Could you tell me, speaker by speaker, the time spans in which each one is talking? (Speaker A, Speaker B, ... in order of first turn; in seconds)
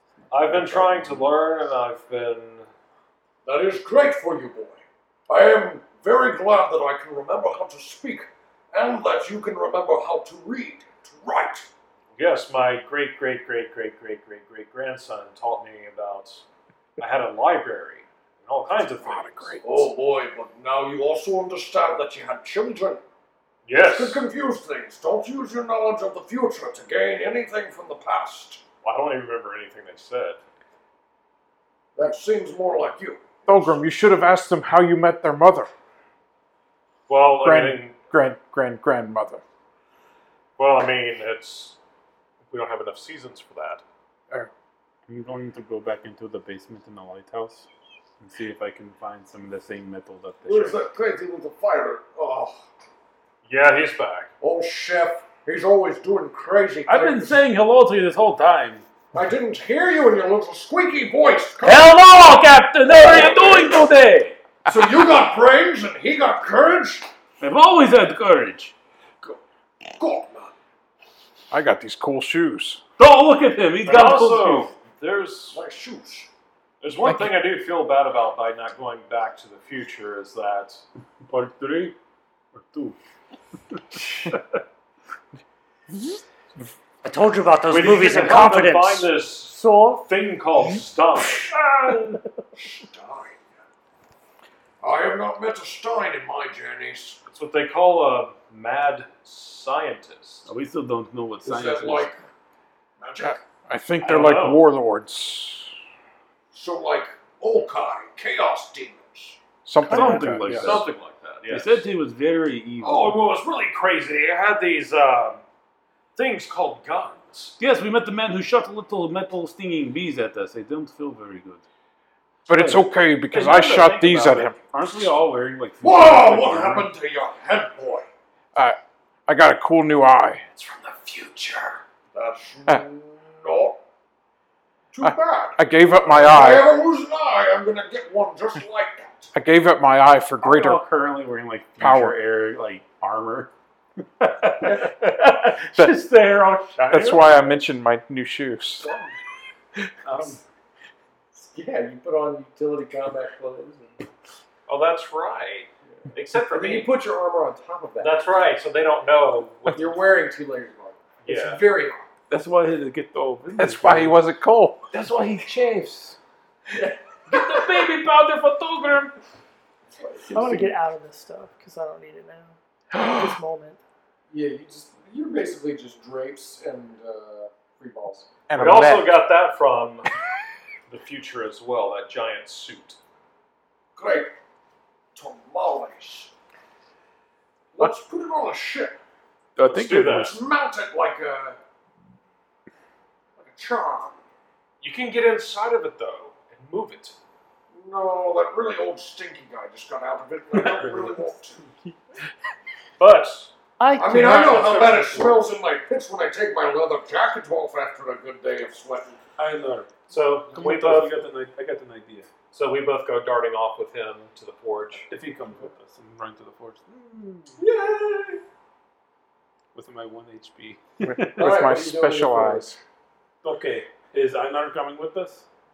Speaker A: 0.3-2.7, 12.2-16.4, 17.0-19.6, 23.6-24.2, 28.8-30.4, 37.1-38.0, 40.6-41.8, 42.5-43.8, 53.4-54.3, 73.8-75.6, 76.8-80.8, 87.7-92.0, 97.3-100.5, 104.0-104.6, 109.9-111.8, 113.1-115.4, 116.1-117.6, 122.5-124.4, 144.6-147.3, 154.7-156.9, 158.0-160.0, 161.2-161.6, 178.5-180.1, 180.9-183.0, 189.6-190.4, 194.8-197.2, 203.0-203.5, 210.1-211.2, 212.5-215.1
Speaker B: 0.4-1.3, 45.1-47.6, 48.2-50.8, 56.9-58.8, 61.6-64.3, 67.4-68.7, 73.0-74.7, 81.2-82.0, 82.5-83.0, 83.9-84.4, 100.4-102.1, 109.8-110.9, 111.5-113.2, 117.6-121.6, 123.3-126.9, 140.4-144.8, 148.8-149.1, 150.0-150.4, 162.3-164.2, 164.9-166.2, 166.8-169.1, 170.3-170.7, 189.6-190.4, 200.6-201.2, 209.4-209.9, 210.5-212.3, 215.1-217.6, 219.7-221.6, 223.4-225.5
Speaker C: 3.5-11.7, 19.6-23.0, 23.7-28.6, 31.9-33.8, 50.4-52.6, 54.4-57.4, 59.1-62.0, 62.8-63.9, 64.7-67.1, 69.9-70.5, 75.5-76.3, 92.5-93.5, 94.8-97.2, 101.4-102.2, 103.0-103.4, 106.5-109.4, 110.5-110.8, 112.8-113.2, 125.8-128.1, 130.5-133.8, 134.9-139.3, 151.3-154.1, 156.4-158.4, 159.7-162.0, 170.0-170.3, 174.3-178.3, 183.9-184.3, 185.1-186.3, 187.7-189.0, 190.2-191.6, 193.4-194.2, 197.7-201.6, 203.9-209.2, 217.6-218.4, 221.4-222.7
Speaker D: 19.0-19.9, 33.5-35.7, 37.4-39.4, 71.5-72.8, 103.3-105.7, 109.6-110.6, 122.5-125.1, 128.5-130.4, 135.0-136.7, 139.3-140.8, 141.8-142.2, 146.9-148.9, 163.6-164.8, 172.9-173.3, 178.5-179.1, 221.0-222.8
Speaker E: 87.0-89.1
Speaker F: 89.4-90.1, 170.3-173.8, 203.8-205.3